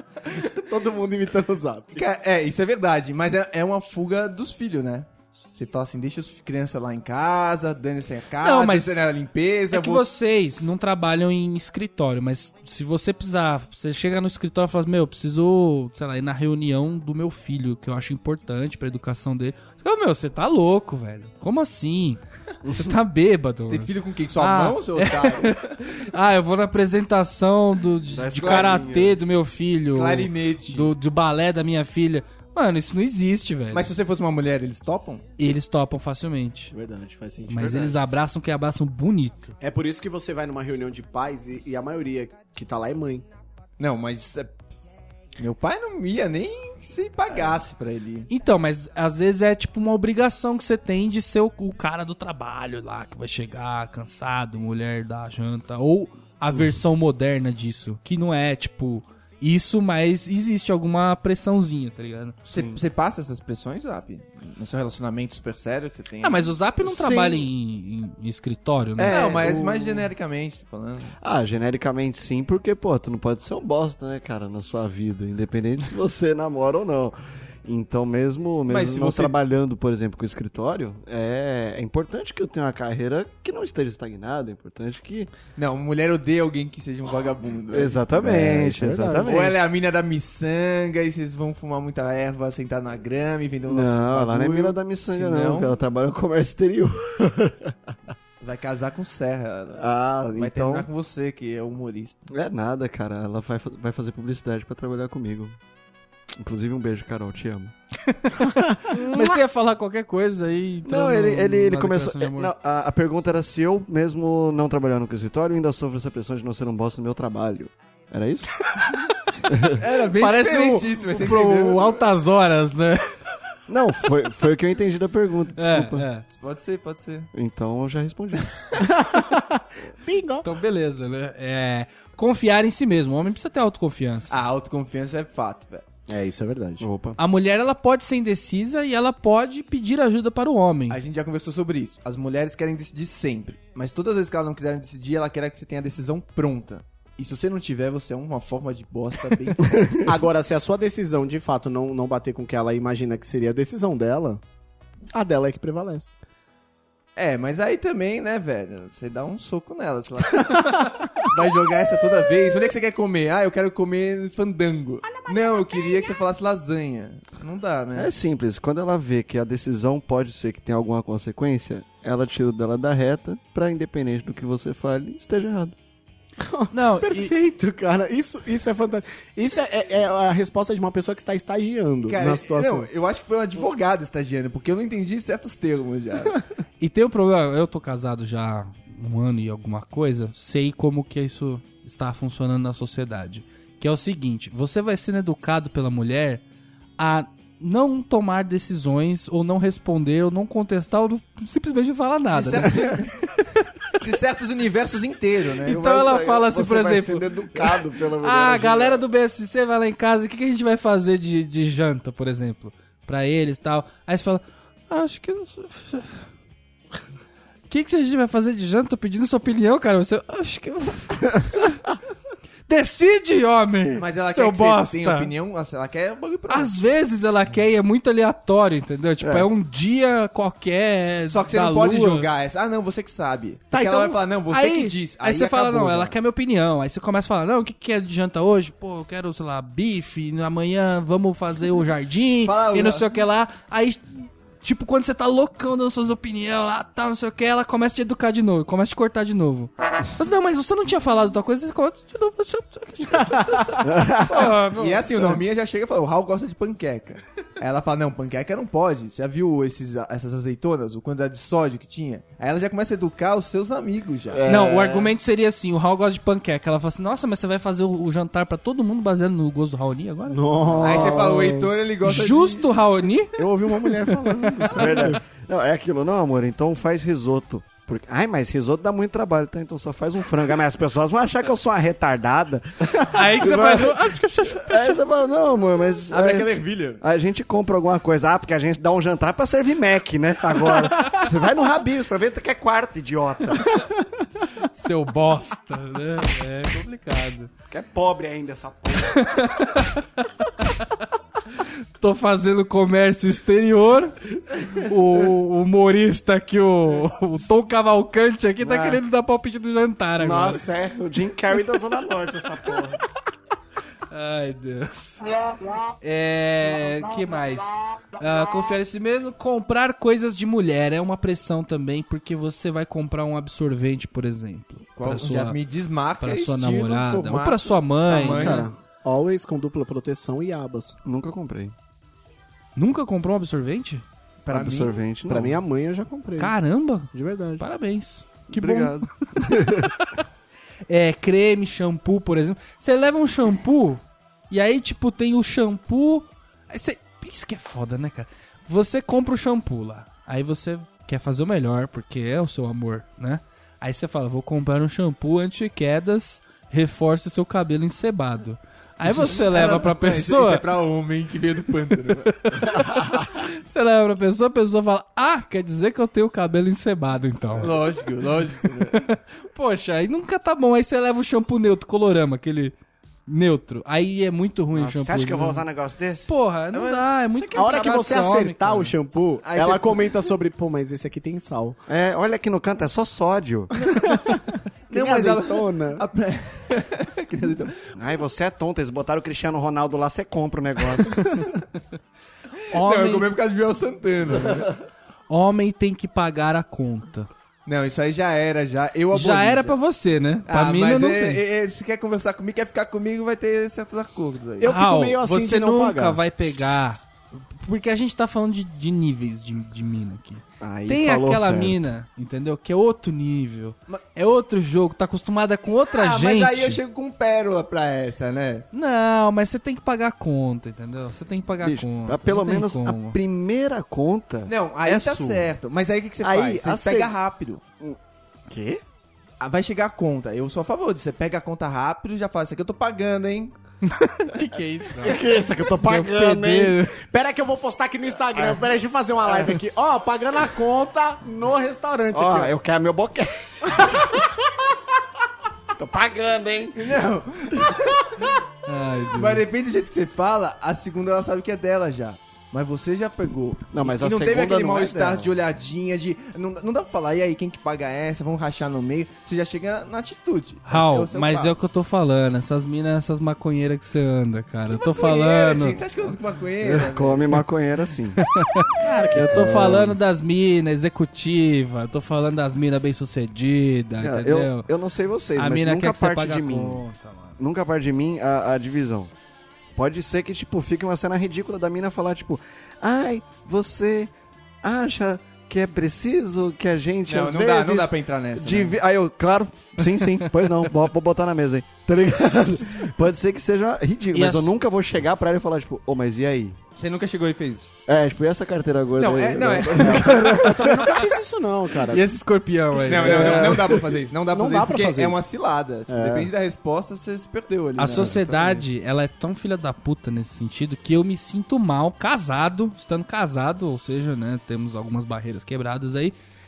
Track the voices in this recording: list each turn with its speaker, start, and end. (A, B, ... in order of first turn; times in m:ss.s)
0:00.3-0:02.0 A
0:01.9-0:10.0 B
0:08.4-0:09.0 C
0:09.7-0:33.9 C
0:22.6-0:22.9 D
0:23.7-0:25.8 B
0:28.1-0:29.2 D
0:28.4-0:28.8 B
0:29.9-0:30.9 B
0:33.7-0:35.2 B
0:35.4-0:36.7 C
0:36.7-0:37.9 A
0:37.5-0:39.5 C
0:37.5-0:37.9 D
0:39.6-0:43.2 A
0:43.8-0:44.5 B
0:45.4-0:48.3 B
0:48.3-1:02.3 C
1:02.4-1:06.5 B
1:06.2-1:09.4 C
1:06.8-1:07.5 D
1:09.0-1:10.1 D
1:09.1-1:11.1 B
1:11.2-1:25.3 D
1:18.7-1:19.3 B
1:25.6-1:28.0 B
1:27.7-1:29.6 D
1:28.1-1:29.4 A
1:29.2-1:35.7 B
1:33.7-1:37.9 D
1:38.4-1:42.3 B
1:39.7-1:40.9 D
1:42.3-1:45.6 D
1:46.3-1:47.7 D
1:48.1-1:52.5 C
1:49.1-1:49.4 D
1:50.8-1:58.6 D
1:58.8-1:59.0 C
1:59.5-1:59.8 D
1:59.8-2:02.0 B
2:00.2-2:03.1 C
2:03.7-2:06.0 D
2:05.6-2:06.2 C
2:06.4-2:07.3 B
2:07.3-2:08.8 D
2:08.8-2:10.5 A
2:10.4-2:14.3 C
2:14.3-2:15.8 B
2:16.1-2:16.8 A
2:16.8-2:17.2 D
2:17.2-2:21.0 C
2:20.9-2:29.9 B
2:30.0-2:34.4 A
2:35.1-2:36.1 A
2:37.2-2:48.1 B
2:48.0-2:55.8 D
2:56.4-3:02.9 A
2:56.7-2:57.3 C
3:02.1-3:06.4 B
3:06.8-3:16.4 C
3:17.0-3:22.7 C
3:22.3-3:23.2 B
3:24.0-3:25.8 B
3:25.6-3:29.0 D
3:25.7-3:36.2 C
3:37.7-3:41.3 C
3:42.7-3:45.3 C
3:44.0-3:46.7 B
3:46.5-3:52.3 C
3:49.2-3:49.5 D
3:51.3-3:56.1 B
3:53.7-3:54.1 A
3:54.5-4:15.0 C
4:02.4-4:03.0 B
4:13.8-4:14.6 D
4:14.4-4:24.4 B
4:24.3-4:25.1 D
4:24.5-4:30.4 C
4:30.3-4:31.7 A
4:30.8-4:32.8 B
4:32.0-4:33.4 C
4:33.4-4:35.2 A
4:34.1-4:35.2 C
4:34.8-4:53.8 D
4:43.1-4:45.0 C
4:46.1-4:47.0 B
4:54.7-4:57.5 C
4:57.7-4:59.5 D
4:59.2-5:00.7 C
5:02.0-5:04.2 C
5:04.7-5:10.6 C
5:08.6-5:09.0 D
5:10.2-5:13.0 D
5:14.1-5:15.2 C
5:16.0-5:25.6 C
5:25.0-5:28.7 B
5:26.2-5:28.6 C
5:28.1-5:31.0 A
5:31.0-5:31.7 D
5:32.8-5:34.0 C
5:34.4-5:35.0 B
5:34.5-5:35.6 D
5:35.3-5:36.6 A
5:36.4-5:40.1 C
5:37.1-5:37.6 A
5:38.5-5:39.9 D
5:40.9-6:00.6 C
5:59.1-6:02.3 B
6:02.3-6:07.7 C
6:07.6-6:08.9 B
6:08.9-6:12.7 C
6:13.3-6:15.6 C
6:14.7-6:16.3 D
6:16.3-6:18.9 C
6:16.7-6:18.0 B
6:17.5-6:21.8 A
6:19.4-6:20.3 B
6:21.9-6:23.7 D
6:23.9-6:24.2 B
6:24.0-6:26.0 A
6:24.9-6:27.7 B
6:28.0-6:31.4 D
6:32.7-6:33.3 C
6:32.8-6:34.7 B
6:35.3-6:37.3 C
6:37.6-6:39.8 B
6:39.1-6:41.4 C
6:40.5-6:44.7 B
6:44.6-6:46.2 A
6:44.6-6:56.8 C
6:50.6-6:51.8 D
6:55.8-6:58.7 B
6:58.7-7:03.2 C
7:01.6-7:05.5 D
7:04.5-7:07.6 B
7:06.2-7:07.1 D
7:07.8-7:08.8 D
7:09.4-7:13.5 B
7:13.8-7:17.0 C
7:15.0-7:16.8 D
7:17.1-7:22.5 A
7:18.3-7:18.6 D
7:22.1-7:24.0 D
7:25.7-7:27.0 D
7:26.7-7:28.4 B
7:28.6-7:29.4 C
7:29.1-7:41.6 B
7:33.7-7:35.4 D
7:40.6-7:45.8 C
7:44.7-7:47.4 B
7:46.6-7:48.2 D
7:48.2-7:54.7 C
7:48.8-7:49.9 A
7:49.2-7:50.0 D
7:54.0-7:56.8 D
7:55.4-7:57.4 C
7:57.4-7:59.1 D
7:59.7-8:04.1 D
8:04.6-8:16.6 D
8:07.1-8:08.8 B
8:10.0-8:10.4 C
8:14.1-8:14.5 C
8:16.8-8:17.7 B
8:17.9-8:20.9 D
8:19.0-8:20.4 B
8:19.8-8:22.1 A
8:21.9-8:23.4 C
8:22.8-8:28.1 B
8:23.0-8:23.8 A
8:23.0-8:23.8 D
8:24.3-8:25.2 A
8:25.9-8:26.3 A
8:27.8-8:36.2 C
8:27.9-8:28.6 D